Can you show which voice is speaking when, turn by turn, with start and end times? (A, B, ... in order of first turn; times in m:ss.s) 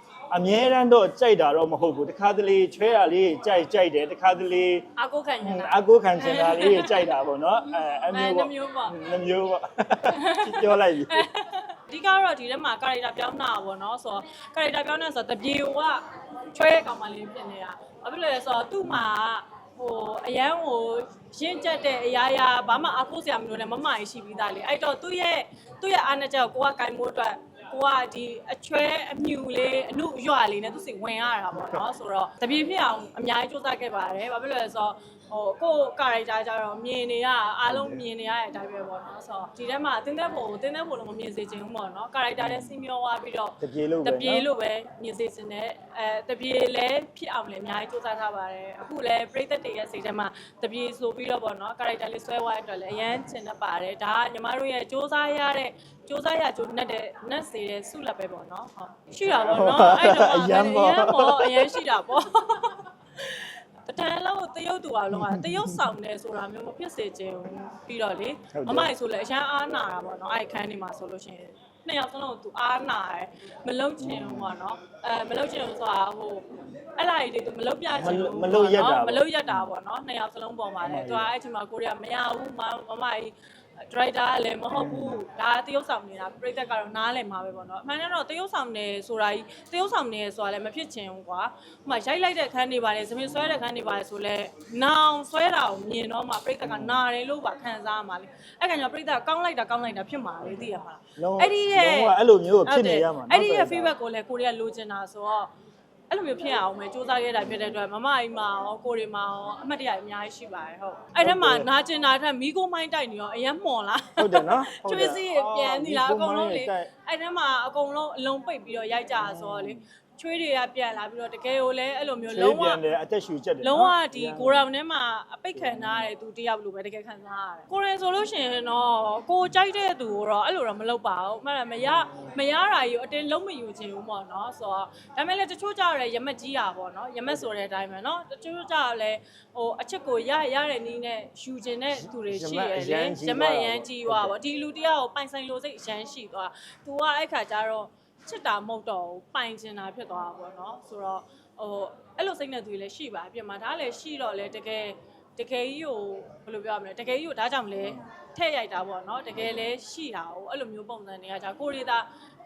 0:00.3-0:04.9 A
0:05.0-0:07.0 B
0:05.4-0:11.3 A
0:08.0-0:09.0 B
0:10.1-1:23.4 B
0:37.7-0:38.0 A
0:42.4-0:42.8 A
0:43.6-0:44.5 A
0:59.2-1:01.8 A
1:05.1-1:05.9 A
1:08.5-1:08.9 A
1:14.0-1:14.6 A
1:17.9-1:19.7 A
1:20.8-1:21.3 A
1:23.9-1:45.5 B
1:24.7-1:25.2 A
1:33.3-1:33.6 A
1:36.6-1:37.0 A
1:41.2-1:43.9 A
1:46.1-2:02.8 B
1:51.2-1:51.7 A
1:54.2-1:56.9 A
1:59.2-1:59.8 A
2:02.3-2:04.6 A
2:03.6-2:42.1 B
2:05.5-2:06.1 A
2:11.8-2:12.2 A
2:22.0-2:24.4 A